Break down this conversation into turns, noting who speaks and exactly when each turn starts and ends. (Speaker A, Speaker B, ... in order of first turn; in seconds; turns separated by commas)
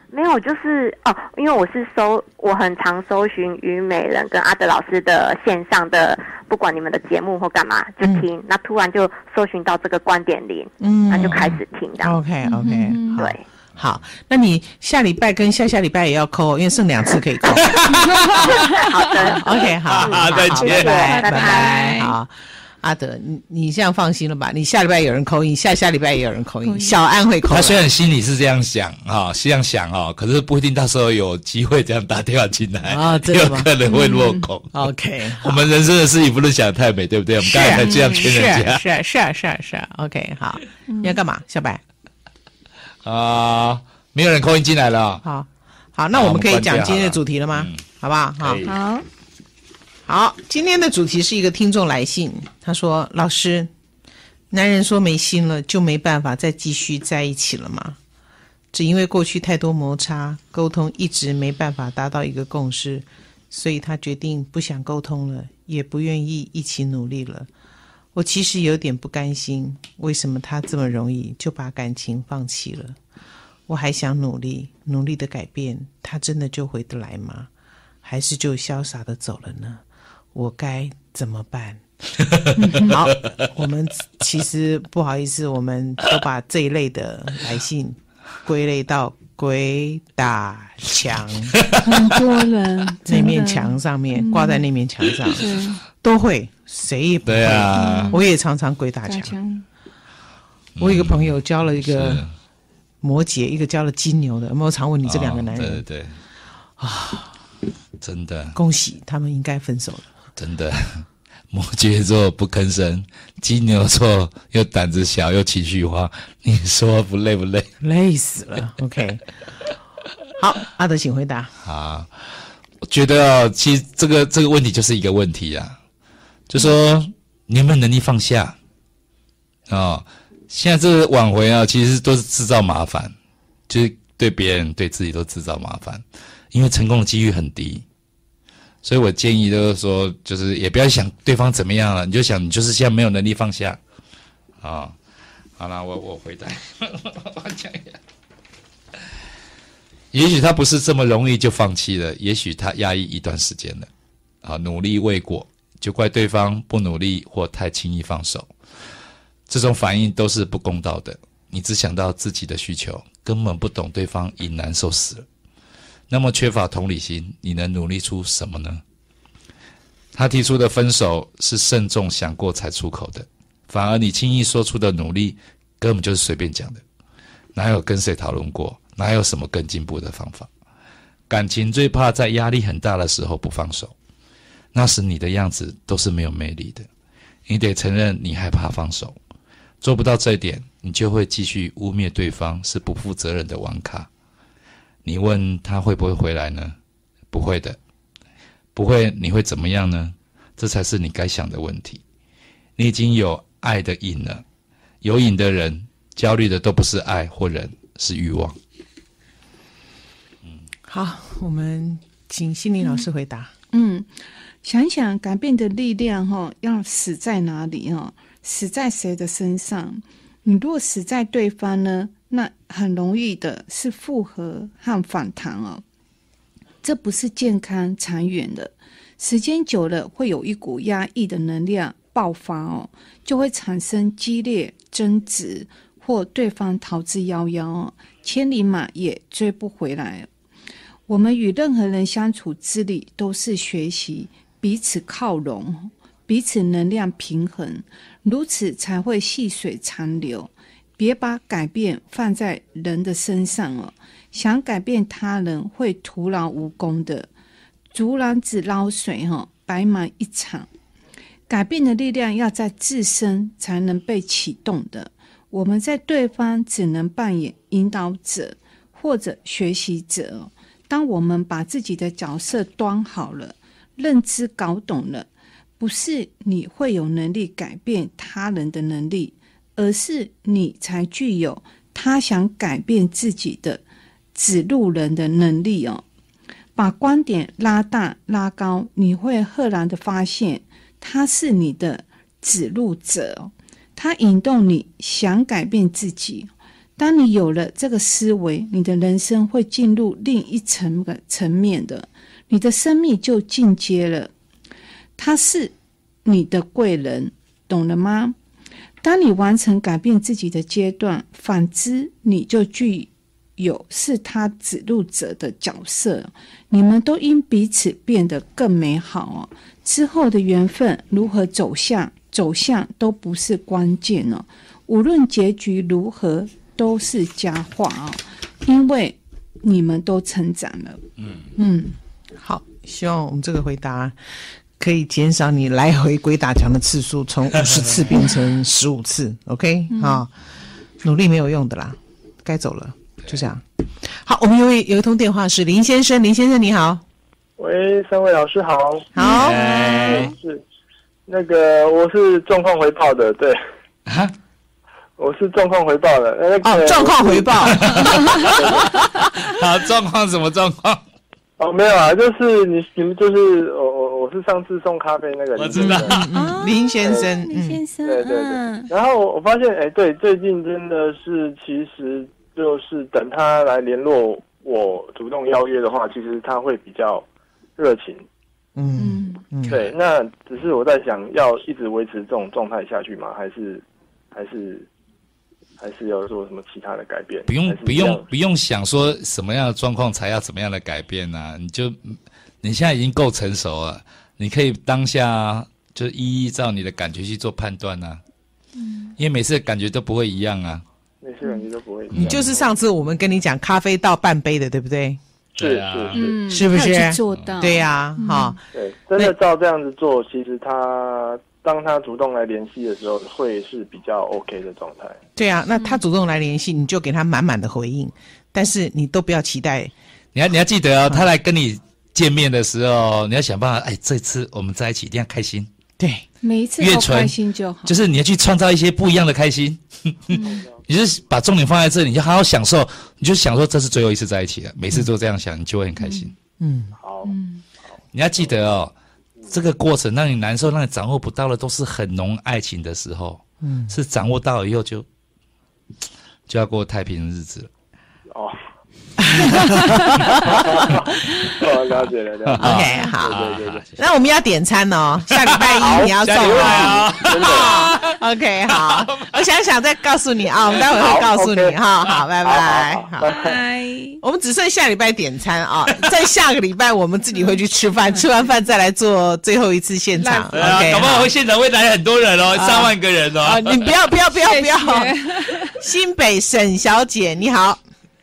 Speaker A: 0.1-12.2, Speaker B: 10.8-18.7, Speaker C: 12.4-13.2, Speaker A: 13.2-13.4, Speaker C: 18.1-19.4, Speaker A: 18.4-21.9, Speaker B: 19.4-27.8, Speaker D: 19.9-21.1, Speaker C: 21.1-22.2, Speaker C: 26.6-27.0, Speaker D: 27.5-38.9, Speaker B: 32.9-33.7, Speaker C: 33.9-34.5, Speaker B: 34.7-35.6, Speaker B: 37.4-41.8, Speaker C: 37.9-38.2, Speaker C: 40.9-41.2, Speaker D: 43.0-45.2, Speaker B: 45.2-48.6, Speaker D: 46.1-47.8, Speaker D: 48.4-48.8, Speaker C: 48.7-49.1, Speaker B: 50.1-53.7, Speaker B: 54.5-58.0, Speaker B: 58.7-67.5, Speaker B: 68.1-73.0, Speaker B: 73.7-77.5, Speaker B: 78.0-79.8, Speaker B: 80.3-81.8, Speaker C: 82.6-82.9, Speaker B: 82.8-91.6, Speaker D: 91.6-92.0, Speaker C: 91.8-94.7, Speaker B: 93.1-99.3, Speaker C: 95.3-95.8, Speaker D: 97.2-98.2, Speaker C: 97.8-98.2, Speaker C: 99.1-99.7, Speaker D: 100.8-102.3, Speaker B: 100.8-102.3, Speaker B: 103.0-105.8, Speaker D: 105.0-106.1, Speaker B: 106.8-107.4, Speaker D: 108.0-108.6, Speaker B: 108.5-110.1, Speaker D: 110.4-117.7, Speaker B: 117.8-119.2, Speaker B: 120.4-121.5, Speaker D: 121.6-122.1, Speaker D: 122.8-125.8, Speaker D: 126.5-128.6, Speaker D: 129.7-133.1, Speaker D: 133.7-137.8, Speaker D: 138.8-143.8, Speaker D: 144.6-145.0, Speaker D: 145.6-148.0, Speaker D: 150.1-153.9, Speaker D: 154.4-158.5, Speaker D: 159.5-165.3, Speaker D: 166.1-168.8, Speaker D: 170.1-176.8, Speaker D: 177.6-180.5, Speaker D: 181.3-183.9, Speaker D: 184.7-186.9, Speaker D: 187.5-189.2, Speaker D: 189.8-194.1, Speaker D: 195.1-196.8, Speaker D: 197.3-197.8, Speaker D: 198.8-202.0, Speaker D: 202.8-204.4, Speaker D: 205.0-208.6, Speaker B: 210.9-213.5, Speaker C: 213.7-214.1, Speaker C: 214.6-225.8, Speaker C: 226.8-240.3, Speaker C: 241.1-257.3, Speaker C: 257.9-260.7, Speaker C: 261.5-275.3, Speaker C: 275.8-283.8, Speaker C: 284.4-286.0, Speaker C: 286.8-304.3, Speaker C: 305.2-305.7, Speaker C: 306.2-308.4, Speaker C: 309.0-331.0, Speaker D: 331.2-331.5, Speaker C: 331.6-331.9, Speaker B: 332.4-334.2, Speaker B: 334.8-340.3, Speaker D: 337.7-338.0, Speaker C: 339.9-340.2, Speaker B: 341.0-347.0, Speaker E: 347.6-350.6, Speaker B: 349.1-350.2, Speaker C: 349.2-349.6, Speaker D: 349.3-350.3, Speaker E: 351.3-353.6, Speaker D: 354.1-354.3, Speaker E: 355.2-359.0, Speaker B: 356.6-359.0, Speaker D: 357.8-358.6, Speaker D: 359.4-361.0, Speaker E: 361.6-366.2, Speaker D: 365.6-366.3, Speaker B: 365.8-367.8, Speaker C: 366.3-368.9, Speaker E: 367.0-367.4, Speaker E: 368.1-378.2, Speaker B: 378.8-379.8, Speaker C: 379.0-379.4, Speaker D: 379.7-379.9, Speaker E: 379.7-384.9, Speaker E: 385.8-388.3, Speaker D: 387.5-398.2, Speaker C: 398.8-399.1, Speaker D: 399.2-400.8, Speaker E: 401.2-402.7, Speaker D: 402.1-402.6, Speaker B: 402.2-405.2, Speaker E: 405.6-406.4, Speaker D: 405.6-406.3, Speaker C: 406.1-408.6, Speaker B: 406.5-408.6, Speaker E: 408.7-415.2, Speaker B: 415.4-419.9, Speaker D: 420.3-425.7, Speaker B: 426.0-426.3, Speaker C: 426.4-428.0, Speaker D: 426.8-436.3, Speaker C: 430.3-430.6, Speaker E: 430.4-430.8, Speaker C: 436.0-436.3, Speaker B: 436.6-437.0, Speaker E: 437.0-438.6, Speaker C: 437.2-437.6, Speaker D: 438.1-438.9, Speaker D: 439.5-445.1, Speaker B: 443.6-443.9, Speaker D: 446.5-447.7, Speaker B: 449.2-451.5, Speaker D: 449.5-450.5, Speaker E: 450.4-453.9, Speaker D: 452.4-454.0, Speaker B: 452.6-453.4, Speaker B: 454.0-463.4, Speaker D: 455.3-458.2, Speaker E: 455.7-457.9, Speaker D: 458.7-459.3, Speaker E: 460.8-463.6, Speaker C: 463.3-464.2, Speaker B: 464.2-471.3, Speaker C: 470.2-470.7, Speaker D: 470.5-473.9, Speaker B: 472.5-477.8, Speaker C: 474.4-475.8